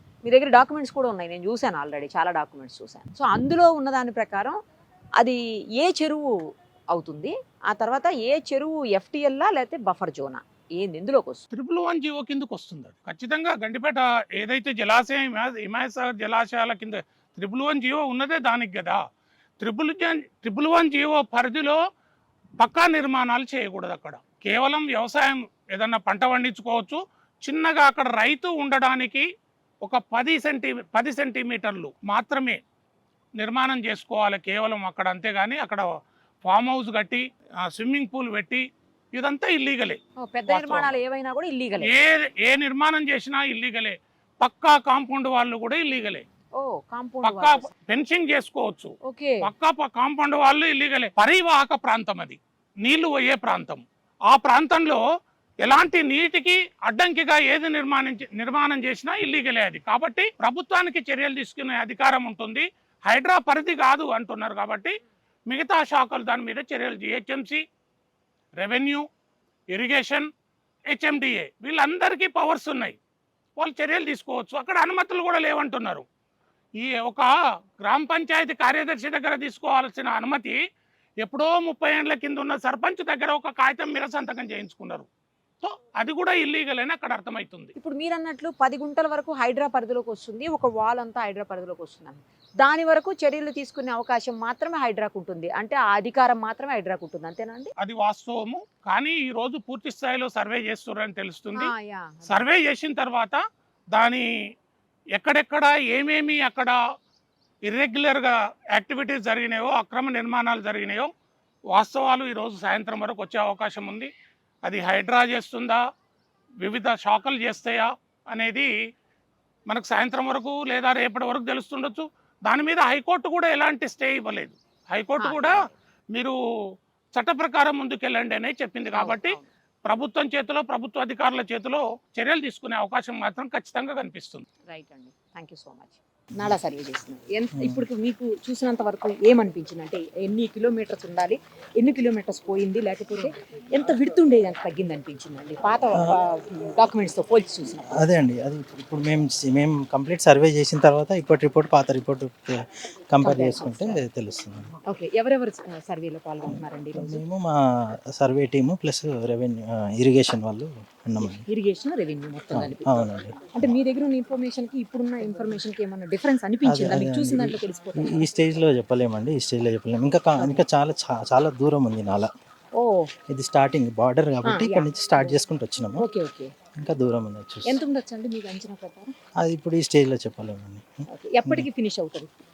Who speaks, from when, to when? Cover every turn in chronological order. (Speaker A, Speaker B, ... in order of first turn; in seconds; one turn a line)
Speaker A: 0.3-4.6
Speaker A: 5.2-6.3
Speaker A: 6.9-11.4
Speaker B: 11.5-19.0
Speaker B: 19.6-21.8
Speaker B: 22.6-29.2
Speaker B: 29.9-32.6
Speaker B: 33.4-35.9
Speaker B: 36.4-38.6
Speaker B: 39.1-40.0
Speaker A: 40.2-41.9
Speaker B: 40.5-41.0
Speaker B: 41.8-46.2
Speaker A: 46.6-47.7
Speaker B: 47.2-48.9
Speaker A: 49.1-49.5
Speaker B: 49.4-55.0
Speaker B: 55.6-64.9
Speaker B: 65.5-67.6
Speaker B: 68.6-69.0
Speaker B: 69.7-70.3
Speaker B: 70.9-73.0
Speaker B: 73.6-76.0
Speaker B: 76.8-77.3
Speaker B: 77.8-80.6
Speaker B: 81.2-85.1
Speaker B: 85.6-87.7
Speaker A: 87.8-97.7
Speaker B: 97.8-101.7
Speaker A: 101.5-102.5
Speaker B: 102.3-103.4
Speaker B: 103.9-104.2
Speaker B: 105.2-106.8
Speaker B: 107.7-111.1
Speaker B: 111.7-114.1
Speaker B: 114.7-115.8
Speaker B: 116.6-118.7
Speaker B: 119.7-125.6
Speaker A: 125.2-125.7
Speaker B: 127.2-134.4
Speaker A: 128.9-129.5
Speaker A: 134.7-148.0
Speaker C: 148.0-154.7
Speaker A: 153.2-154.0
Speaker A: 154.8-157.2
Speaker C: 156.5-157.6
Speaker C: 158.1-161.5
Speaker A: 161.2-162.8
Speaker C: 162.5-163.6
Speaker A: 163.5-168.2
Speaker C: 166.7-172.3
Speaker A: 170.4-170.6
Speaker A: 172.8-173.1
Speaker C: 173.3-176.0
Speaker A: 174.4-175.4
Speaker A: 176.0-176.5
Speaker C: 176.8-177.7
Speaker A: 177.7-179.1
Speaker C: 179.4-180.9
Speaker A: 181.1-182.3